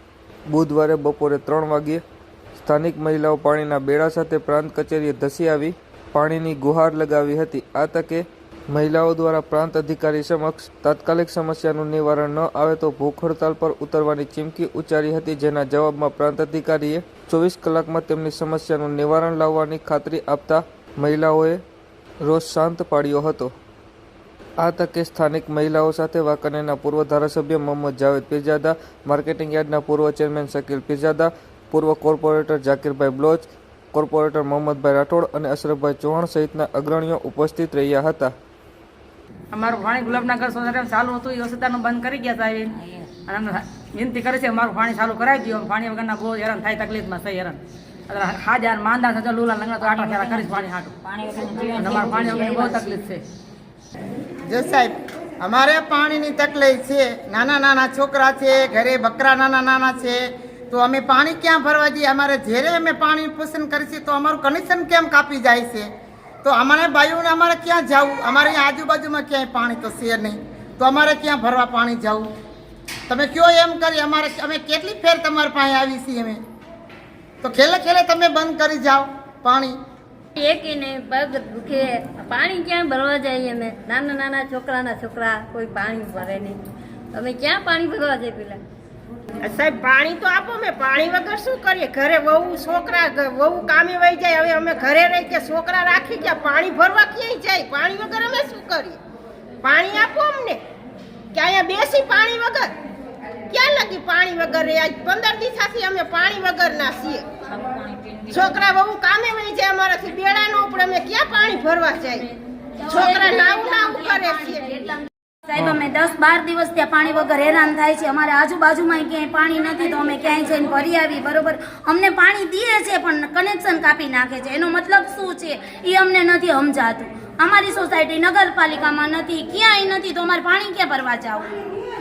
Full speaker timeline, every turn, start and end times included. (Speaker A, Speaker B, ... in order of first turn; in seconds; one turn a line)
Speaker A: 0.5-2.0
Speaker A: 2.5-21.6
Speaker A: 22.2-23.5
Speaker A: 24.6-38.3
Speaker B: 39.5-53.2
Speaker C: 54.5-65.9
Speaker C: 66.4-72.3
Speaker C: 73.1-76.4
Speaker C: 77.4-79.8
Speaker D: 80.3-86.6
Speaker D: 87.1-88.6
Speaker E: 89.4-99.0
Speaker E: 99.6-100.6
Speaker E: 101.3-102.7
Speaker E: 103.5-107.3
Speaker E: 108.3-112.3
Speaker E: 112.8-114.8
Speaker F: 112.9-114.6
Speaker F: 115.5-131.5